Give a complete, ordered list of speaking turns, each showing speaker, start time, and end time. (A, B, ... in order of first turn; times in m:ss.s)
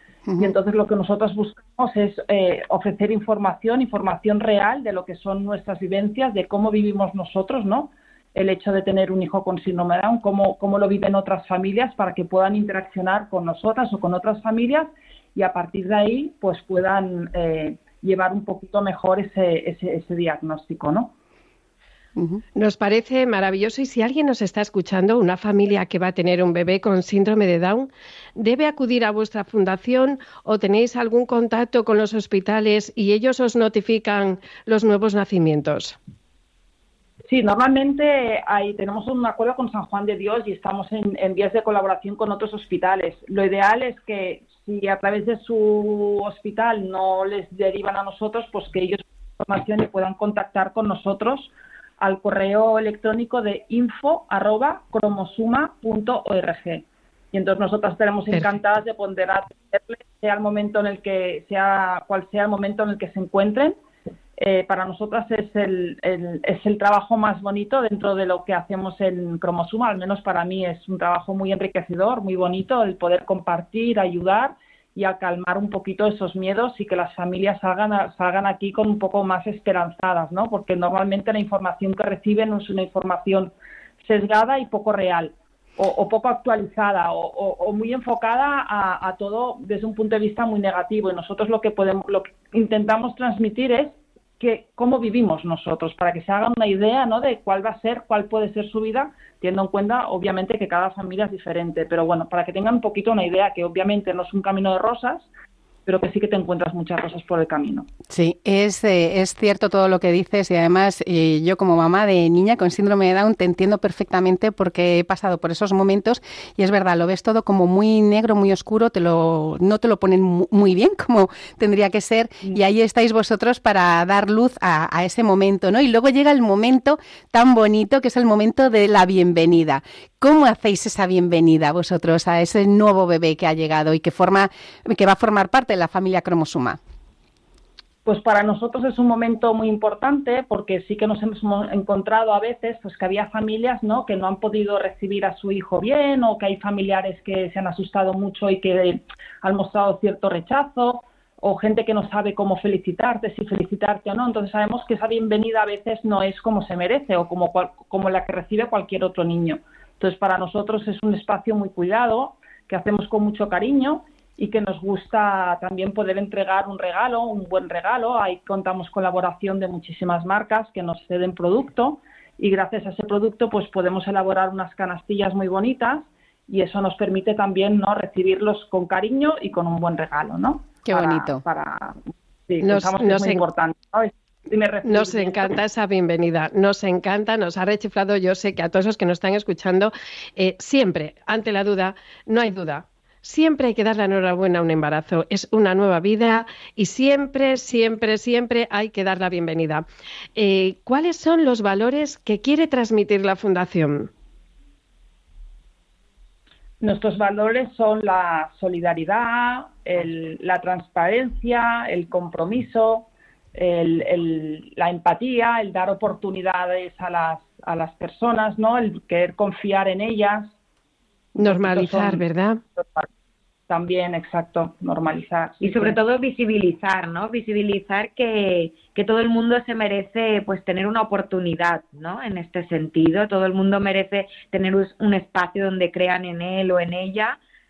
0:00.4-0:21.1 A
0:22.2-0:22.4 B
0:22.6-0:36.0 C
0:37.3-1:03.8 A
1:04.4-1:45.3 A
1:45.9-1:47.9 A
1:48.1-2:16.8 B
2:18.0-3:05.6 A
3:00.9-3:01.4 B
3:02.6-3:03.4 C
3:04.8-3:19.8 C
3:20.4-3:24.1 C
3:26.8-3:40.5 A
3:41.4-3:42.6 C
3:41.4-3:42.2 A
3:42.8-3:43.1 A
3:43.7-3:46.0 A
3:45.6-3:57.4 D